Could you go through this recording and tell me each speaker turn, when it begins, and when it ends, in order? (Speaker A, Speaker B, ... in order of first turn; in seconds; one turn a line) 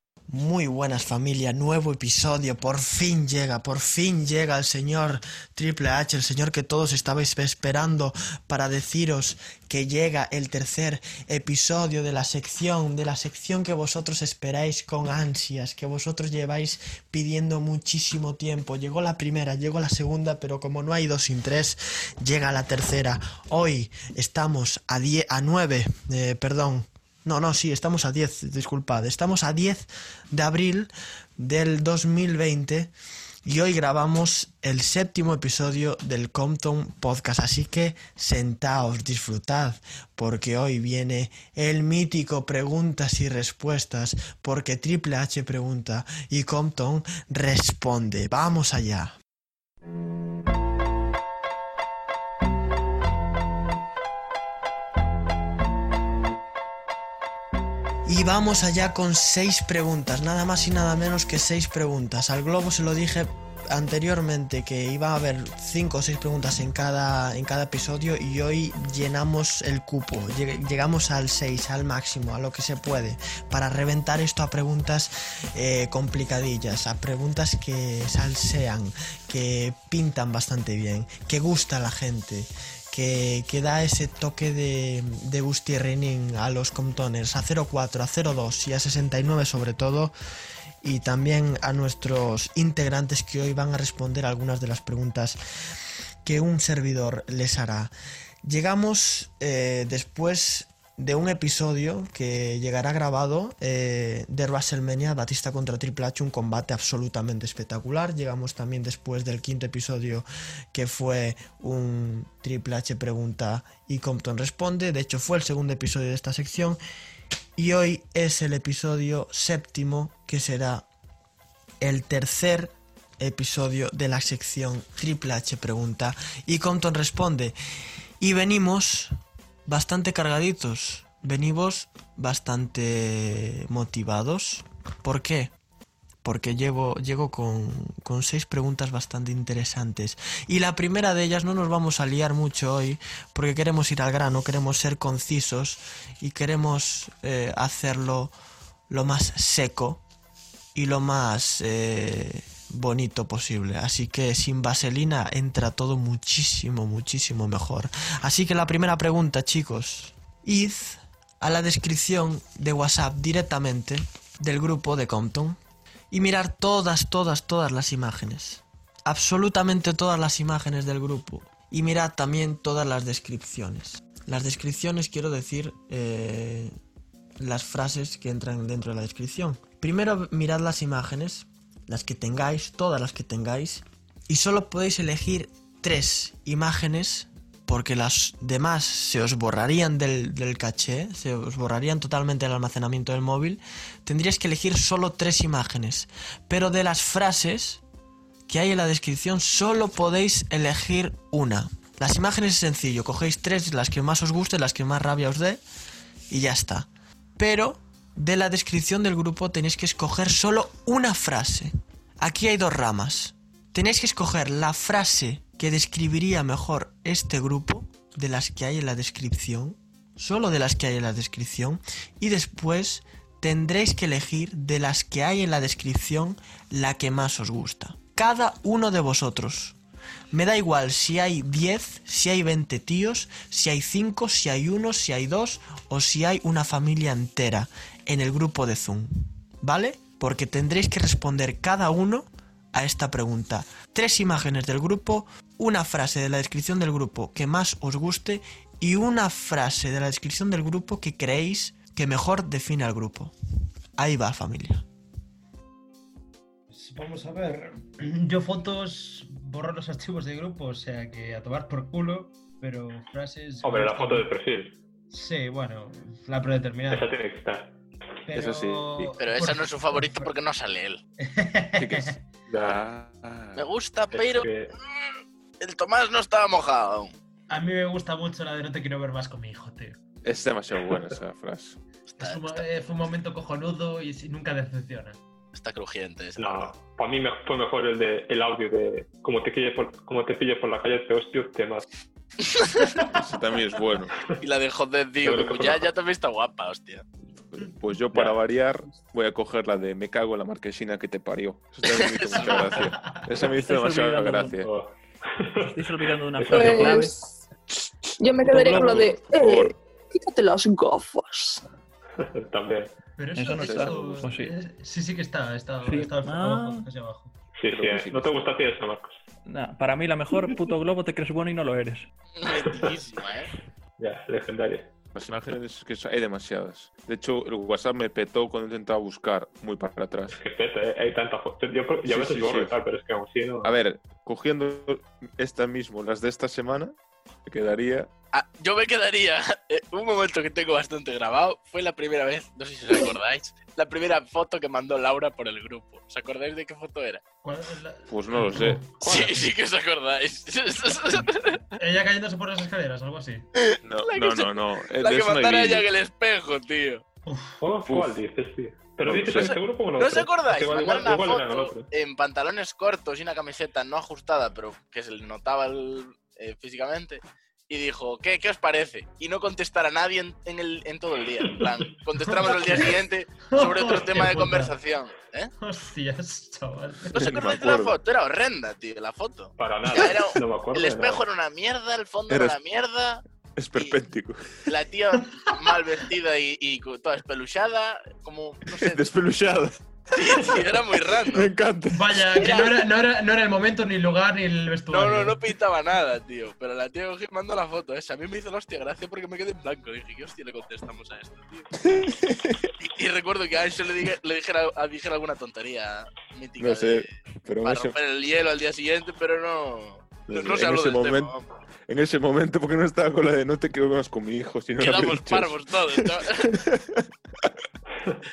Speaker A: 0.3-32.9
Speaker A: 33.5-49.1
Speaker A: 58.1-90.1
Speaker A: 90.8-95.4
Speaker A: 96.2-97.9
Speaker A: 98.4-116.8
Speaker A: 117.6-120.9
Speaker A: 121.8-127.6
Speaker A: 128.2-129.2
Speaker A: 129.7-135.5
Speaker A: 136.2-148.3
Speaker A: 148.9-150.0
Speaker A: 150.8-165.6
Speaker A: 166.1-176.7
Speaker A: 177.4-197.8
Speaker A: 198.5-205.6
Speaker A: 206.3-229.8
Speaker A: 230.3-253.3
Speaker A: 254.0-254.8
Speaker B: 256.7-264.3
Speaker C: 263.6-264.8
Speaker B: 265.1-267.1
Speaker C: 266.9-267.7
Speaker B: 268.3-270.3
Speaker D: 268.3-269.1
Speaker E: 269.2-271.0
Speaker B: 271.2-272.1
Speaker D: 271.8-273.7
Speaker C: 272.5-272.8
Speaker E: 273.6-274.5
Speaker C: 274.1-274.7
Speaker E: 275.6-277.1
Speaker B: 277.5-280.0
Speaker D: 280.2-281.8
Speaker E: 282.1-282.6
Speaker B: 282.2-285.2
Speaker E: 285.5-286.7
Speaker C: 286.4-291.9
Speaker D: 293.0-294.2
Speaker E: 294.4-297.0
Speaker C: 295.2-295.9
Speaker D: 297.5-304.7
Speaker E: 301.8-302.5
Speaker B: 302.4-303.3
Speaker F: 303.5-304.6
Speaker C: 304.6-307.0
Speaker F: 305.6-307.1
Speaker G: 306.5-307.4
Speaker D: 307.7-309.7
Speaker G: 308.2-311.7
Speaker C: 312.2-312.9
Speaker B: 313.2-317.3
Speaker F: 313.4-314.5
Speaker D: 313.6-314.0
Speaker F: 315.9-316.9
Speaker C: 317.6-319.2
Speaker D: 317.7-318.5
Speaker F: 319.5-322.1
Speaker E: 322.4-323.5
Speaker C: 324.0-324.9
Speaker D: 325.1-330.4
Speaker C: 330.3-333.8
Speaker D: 332.1-332.8
Speaker D: 333.6-338.1
Speaker E: 338.3-347.2
Speaker B: 347.4-349.4
Speaker D: 348.1-348.8
Speaker E: 349.0-351.6
Speaker B: 351.8-353.5
Speaker E: 353.6-357.0
Speaker D: 353.8-355.9
Speaker B: 357.3-357.6
Speaker C: 357.6-361.9
Speaker D: 359.1-359.6
Speaker E: 359.3-375.5
Speaker B: 372.3-373.0
Speaker B: 373.5-374.8
Speaker B: 375.6-377.2
Speaker D: 377.1-378.0
Speaker E: 377.1-383.2
Speaker C: 379.6-381.2
Speaker D: 382.3-382.6
Speaker D: 383.6-384.4
Speaker E: 384.7-389.0
Speaker D: 388.8-390.6
Speaker E: 390.1-391.5
Speaker D: 391.3-392.6
Speaker B: 391.9-395.4
Speaker E: 392.4-392.8
Speaker E: 394.9-401.7
Speaker D: 401.8-402.7
Speaker E: 402.8-411.5
Speaker D: 406.6-408.0
Speaker D: 410.3-411.3
Speaker D: 411.9-417.1
Speaker E: 414.8-416.5